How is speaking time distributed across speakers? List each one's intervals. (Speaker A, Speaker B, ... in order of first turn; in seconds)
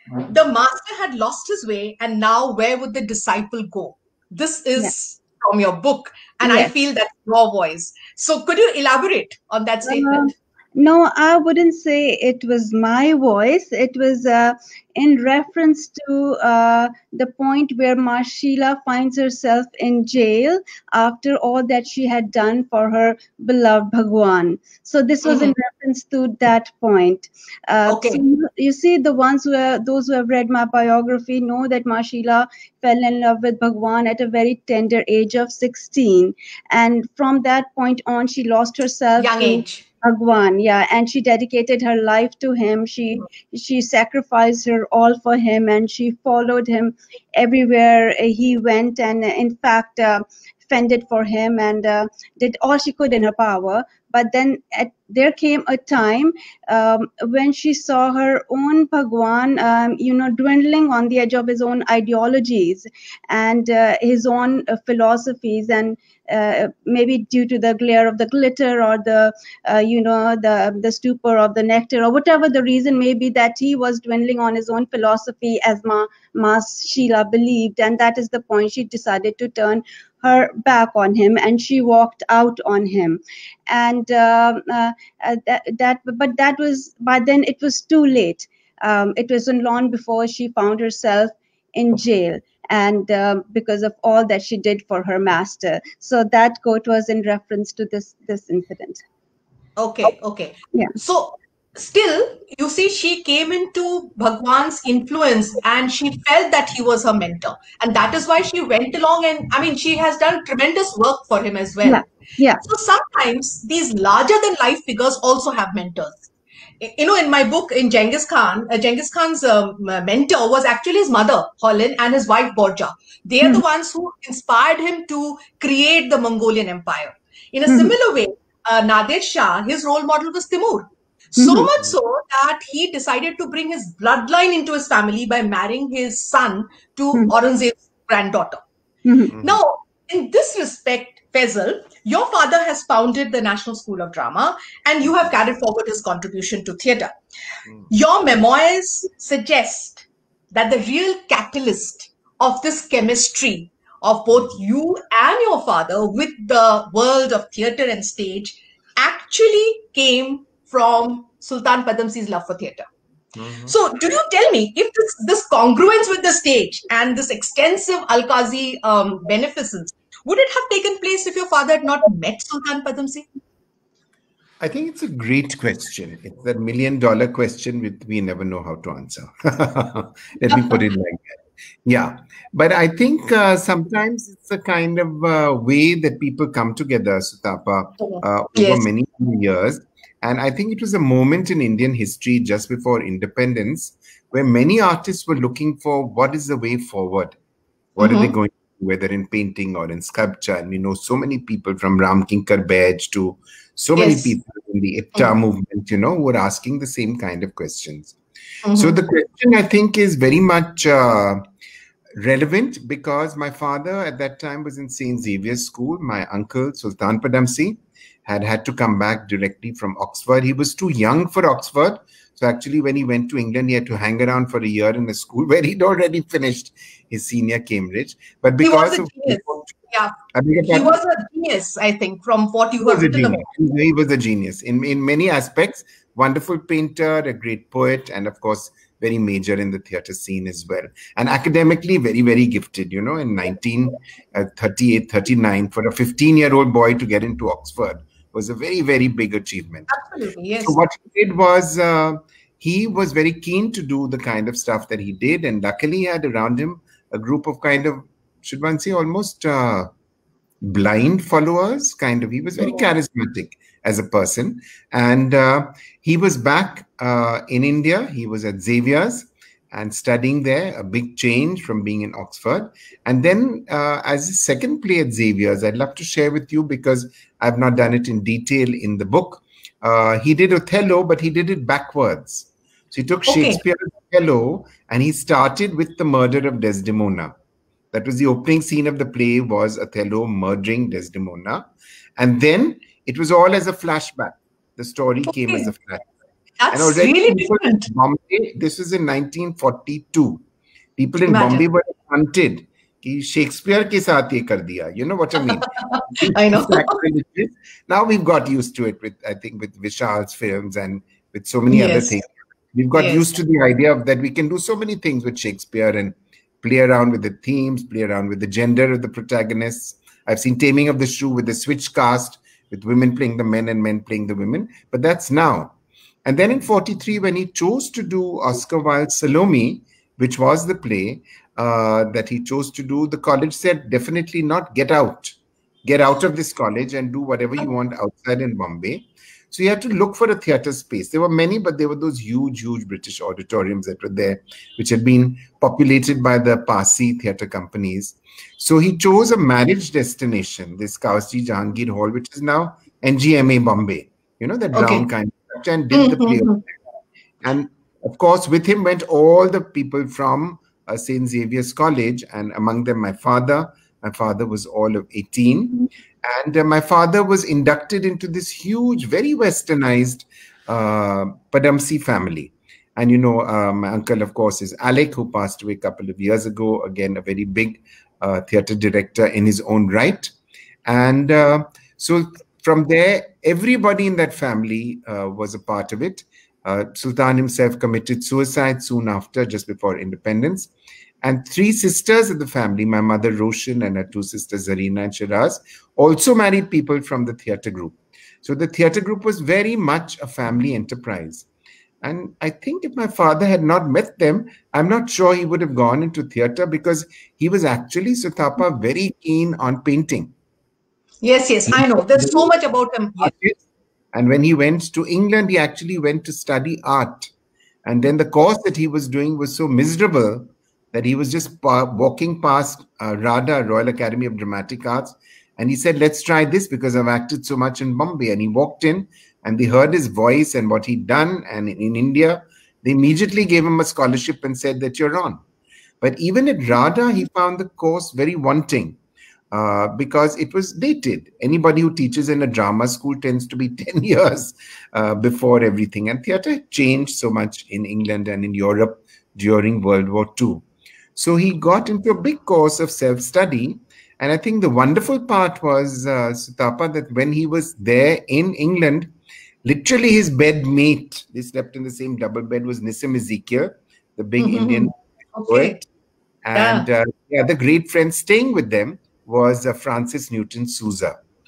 Speaker A: 0.3-10.3, 25.2-25.5, 27.9-28.2, 39.2-39.8, 99.8-112.1, 112.6-116.3, 116.8-138.6, 139.4-147.1, 147.9-162.9, 163.6-173.3, 188.0-188.8, 198.0-198.3, 204.0-204.3, 208.7-209.0, 228.6-230.2, 230.7-233.5, 249.9-250.8, 283.3-283.6, 295.4-295.7, 296.6-297.9, 301.3-301.6, 305.8-307.0, 311.7-312.2, 313.0-313.3, 354.7-355.1, 355.9-356.6, 411.2-413.3, 464.4-465.8, 466.6-466.9
Speaker B: 6.4-6.7, 9.9-99.0, 111.8-112.6, 131.4-131.7, 139.1-139.3
Speaker C: 139.3-139.6, 163.4-163.7, 174.6-197.4, 198.0-208.2, 208.7-211.4, 212.2-229.7, 230.3-231.0, 232.8-249.9, 250.6-259.9, 260.6-287.4, 287.9-296.1, 296.7-300.4, 301.0-356.8, 357.4-380.3, 380.9-390.7, 391.2-401.5, 402.0-410.3, 411.7-412.5, 413.2-413.6, 414.1-417.3, 417.9-435.4, 436.0-439.0, 439.5-450.6, 451.2-464.9, 465.5-465.9, 466.4-471.2